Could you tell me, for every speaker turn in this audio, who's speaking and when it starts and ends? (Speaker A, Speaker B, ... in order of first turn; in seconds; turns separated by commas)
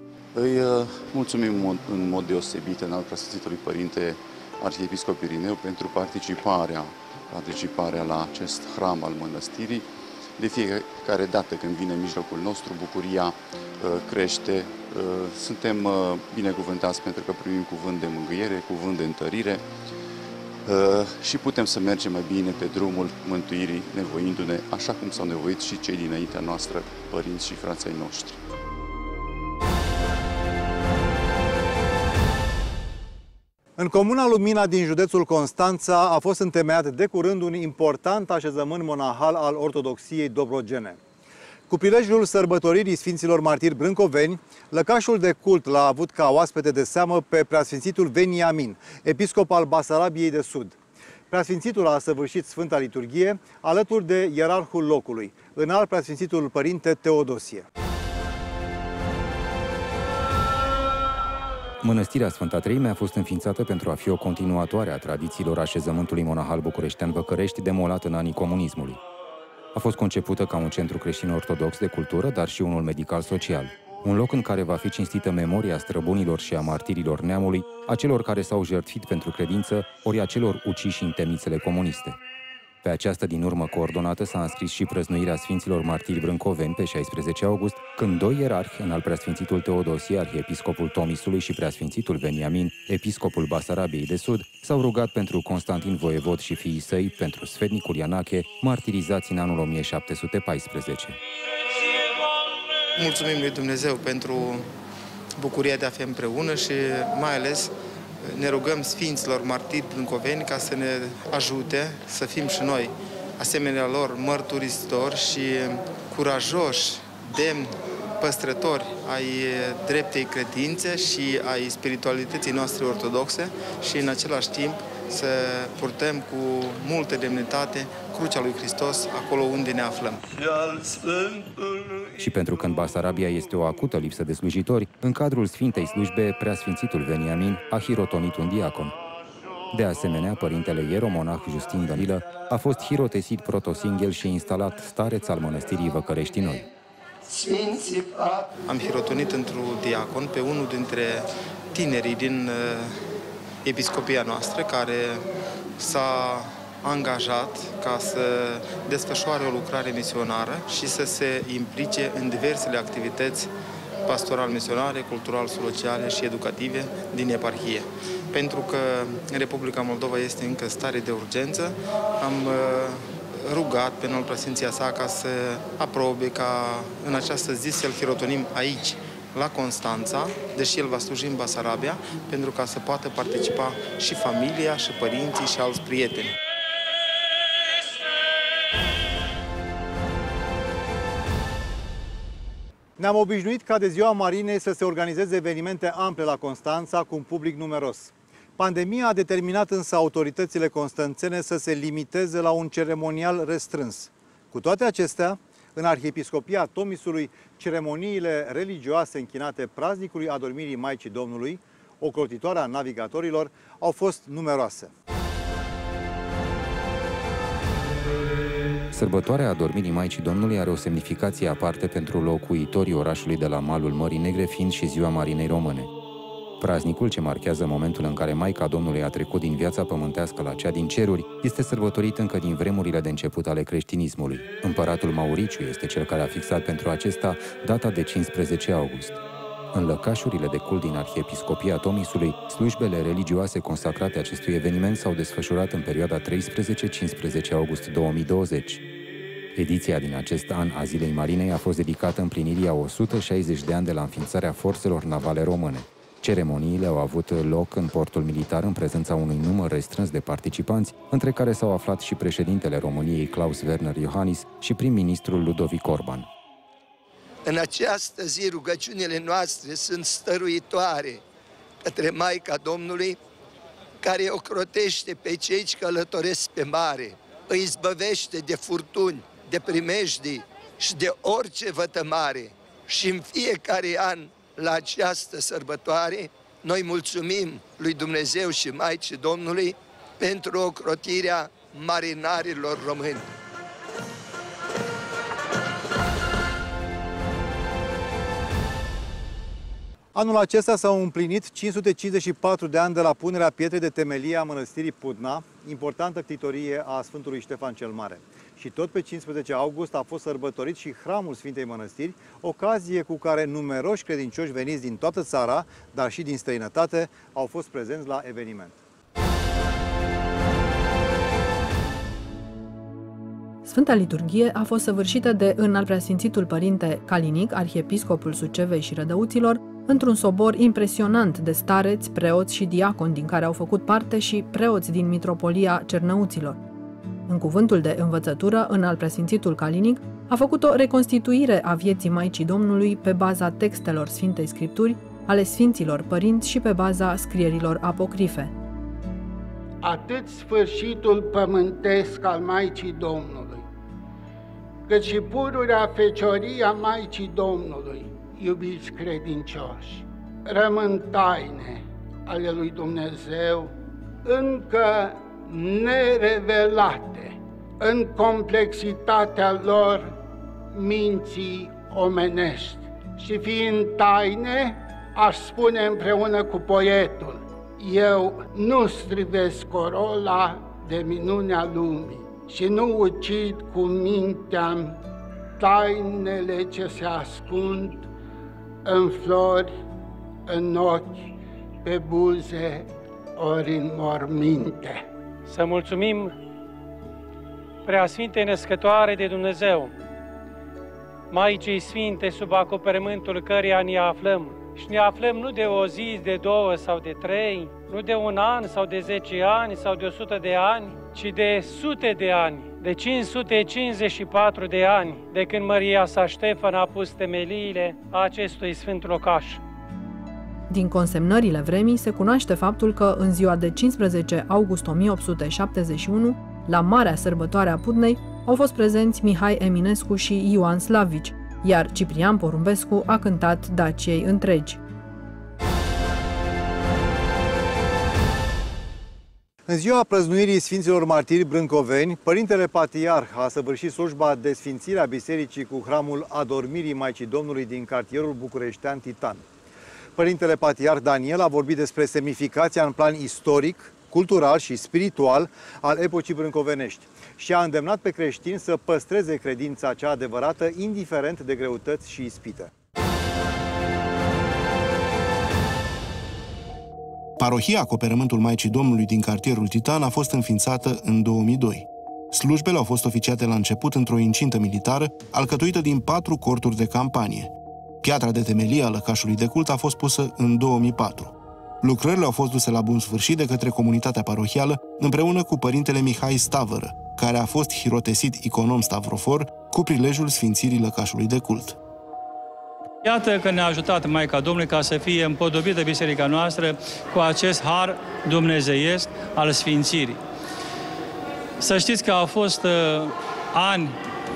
Speaker A: 0.3-19.7, Speaker A: 20.6-28.4, Speaker B: 33.8-41.0, Speaker B: 41.7-50.8, Speaker B: 51.3-57.6, Speaker C: 61.8-69.0, Speaker C: 69.7-82.2, Speaker C: 82.8-101.2, Speaker D: 103.0-104.7, Speaker D: 105.4-130.2, Speaker E: 130.5-131.5, Speaker C: 132.2-138.9, Speaker C: 139.7-146.6, Speaker E: 147.3-148.4, Speaker D: 148.7-153.0, Speaker D: 153.6-155.3, Speaker D: 155.8-163.5, Speaker D: 164.1-186.4, Speaker B: 193.0-214.9, Speaker C: 218.9-225.9, Speaker C: 226.6-239.2, Speaker C: 239.7-248.8, Speaker C: 249.5-266.3, Speaker E: 267.4-271.2, Speaker E: 271.8-273.2, Speaker E: 274.0-293.3, Speaker B: 300.1-318.7, Speaker F: 323.6-336.6, Speaker F: 337.3-348.5, Speaker G: 349.8-353.6, Speaker G: 354.9-363.7, Speaker G: 364.2-370.1, Speaker G: 370.7-385.0, Speaker G: 385.6-388.1, Speaker G: 388.8-389.7, Speaker G: 390.5-391.3, Speaker G: 391.8-395.0, Speaker H: 395.5-396.3, Speaker H: 397.8-399.9, Speaker H: 401.3-419.6, Speaker F: 420.7-434.8, Speaker B: 439.7-449.4, Speaker B: 450.1-462.7, Speaker I: 467.4-491.8, Speaker J: 493.0-500.2, Speaker J: 501.6-503.9